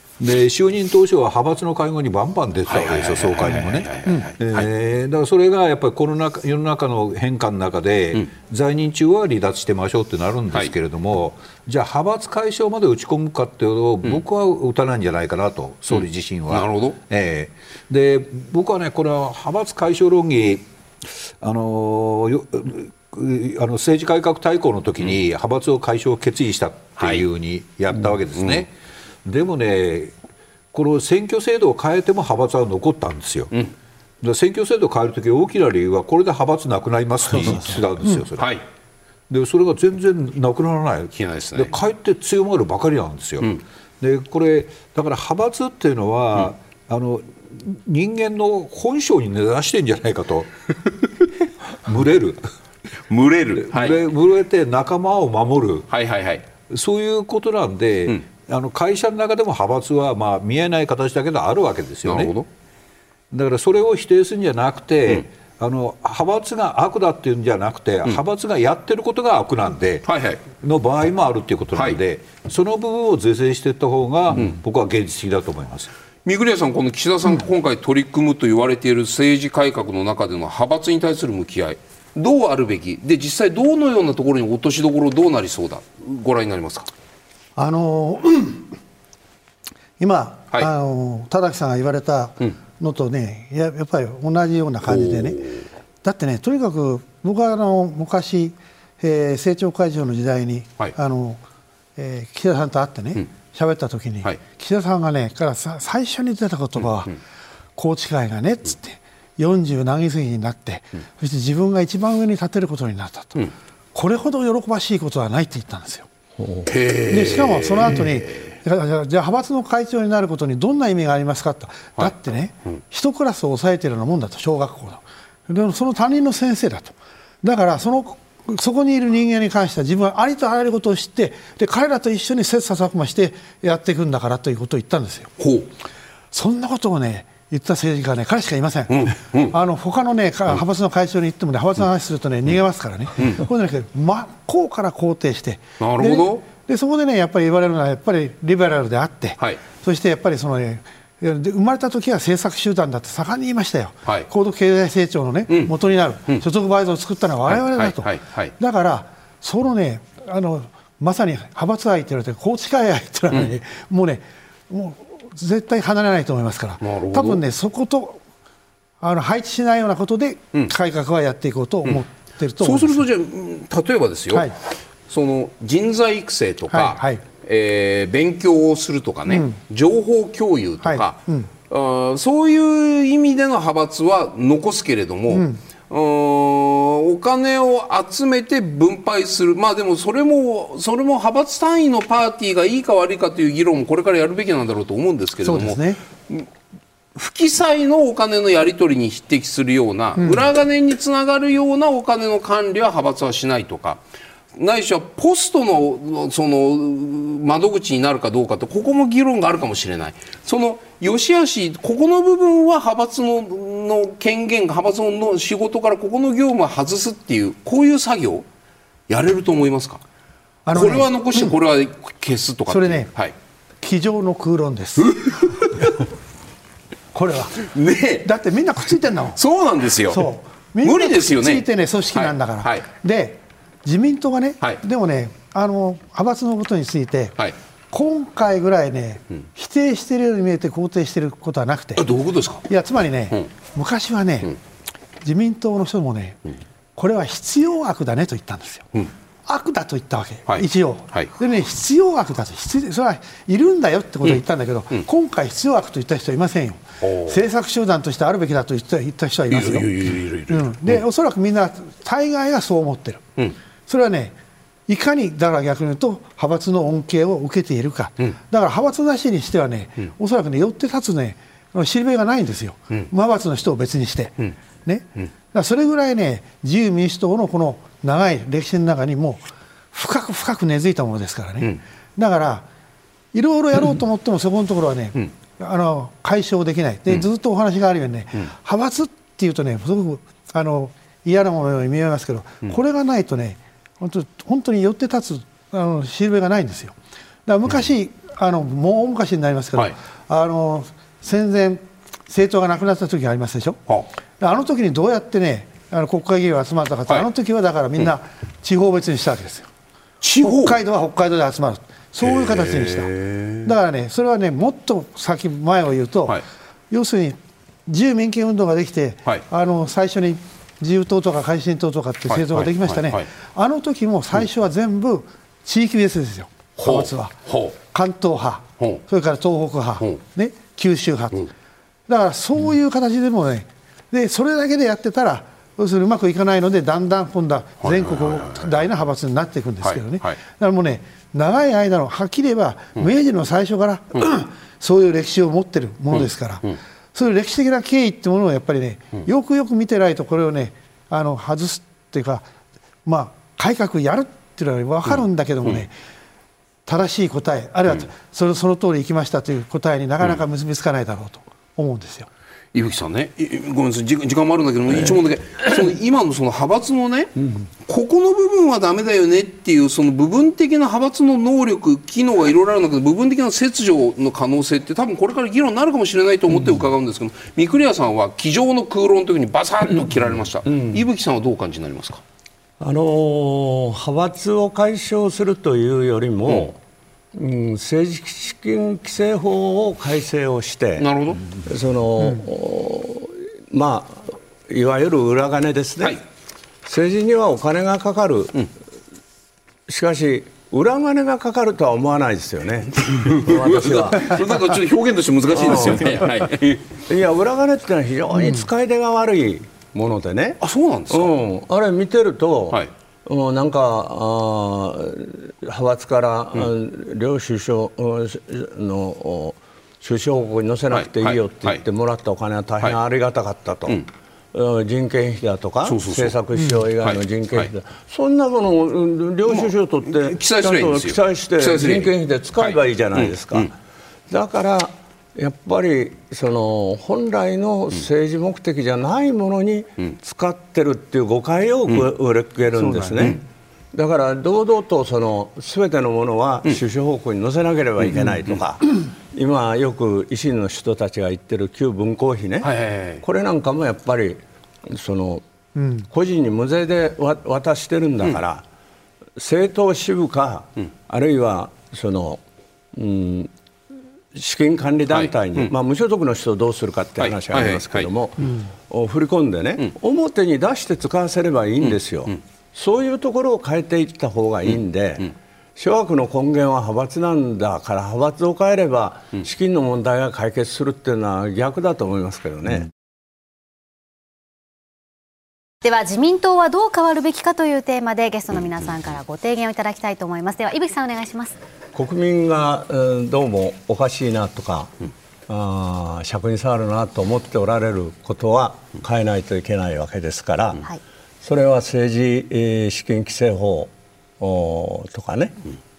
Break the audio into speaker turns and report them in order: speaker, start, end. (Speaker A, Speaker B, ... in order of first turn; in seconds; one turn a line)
Speaker A: 0.2-20.6
Speaker B: 2.7-4.7
Speaker B: 15.9-17.0
Speaker A: 21.4-28.7
Speaker B: 27.0-27.2
Speaker B: 28.4-28.6
Speaker A: 29.2-30.1
Speaker A: 30.7-33.5
Speaker A: 34.2-38.5
Speaker B: 37.3-37.6
Speaker B: 38.4-38.6
Speaker A: 39.3-51.0
Speaker B: 41.1-41.8
Speaker A: 51.8-52.5
Speaker B: 53.1-54.0
Speaker A: 53.7-55.9
Speaker B: 55.9-56.4
Speaker A: 56.7-62.3
Speaker B: 62.0-62.5
Speaker A: 63.3-75.9
Speaker B: 70.0-70.4
Speaker B: 76.2-86.9
Speaker C: 87.5-88.7
Speaker C: 90.0-95.5
Speaker B: 94.8-95.7
Speaker C: 96.0-101.4
Speaker C: 102.0-107.2
Speaker C: 107.8-116.1
Speaker D: 116.4-116.7
Speaker B: 116.7-118.2
Speaker C: 117.1-135.3
Speaker B: 135.4-135.7
Speaker C: 136.3-168.2
Speaker B: 138.9-139.5
Speaker B: 145.8-146.4
Speaker B: 157.5-158.5
Speaker B: 166.8-167.4
Speaker C: 169.0-173.0
Speaker B: 172.6-174.5
Speaker B: 175.1-196.5
Speaker C: 176.7-177.2
Speaker C: 179.3-179.6
Speaker C: 180.8-181.5
Speaker C: 185.3-185.6
Speaker C: 195.4-196.0
Speaker B: 197.1-204.0
Speaker C: 200.2-200.4
Speaker B: 204.5-218.4
Speaker B: 219.1-220.0
Speaker C: 220.7-221.5
Speaker B: 220.7-223.3
Speaker C: 222.7-223.1
Speaker C: 223.8-225.9
Speaker B: 225.0-225.9
Speaker C: 227.1-229.4
Speaker B: 227.6-228.3
Speaker B: 229.3-230.3
Speaker C: 230.1-237.4
Speaker B: 230.8-232.8
Speaker C: 237.9-242.1
Speaker B: 242.0-242.7
Speaker C: 242.7-244.5
Speaker C: 245.2-246.4
Speaker C: 246.9-248.9
Speaker C: 249.4-263.2
Speaker B: 250.5-251.3
Speaker B: 257.0-257.4
Speaker B: 259.5-261.0
Speaker C: 263.9-264.3
Speaker C: 264.9-282.6
Speaker C: 283.3-296.9
Speaker C: 297.4-303.8
Speaker C: 304.4-309.7
Speaker B: 310.2-310.8
Speaker C: 310.4-327.3
Speaker B: 312.2-313.7
Speaker B: 322.3-323.3
Speaker B: 326.8-327.8
Speaker C: 327.9-331.5
Speaker C: 332.1-352.4
Speaker B: 337.8-338.8
Speaker B: 339.8-340.4
Speaker B: 346.1-346.8
Speaker C: 353.0-355.9
Speaker C: 356.9-362.3
Speaker B: 362.7-382.2
Speaker D: 380.7-381.0
Speaker D: 382.8-386.8
Speaker D: 387.3-396.2
Speaker B: 391.0-391.4
Speaker D: 396.8-398.7
Speaker D: 399.9-404.4
Speaker B: 403.1-406.9
Speaker D: 405.5-406.2
Speaker D: 407.1-433.7
Speaker B: 410.6-411.3
Speaker B: 420.9-421.8
Speaker B: 425.8-426.3
Speaker B: 427.0-427.6
Speaker B: 429.5-433.7
Speaker D: 434.3-443.4
Speaker C: 442.7-443.3
Speaker D: 443.9-455.4
Speaker B: 452.6-453.2
Speaker C: 455.8-456.1
Speaker D: 456.1-458.6
Speaker D: 459.4-462.4
Speaker D: 462.9-463.5
Speaker D: 464.3-482.9
Speaker B: 465.1-465.7
Speaker B: 467.2-468.1
Speaker E: 485.8-491.6
Speaker D: 491.9-494.9
Speaker D: 495.5-500.8
Speaker D: 501.4-505.6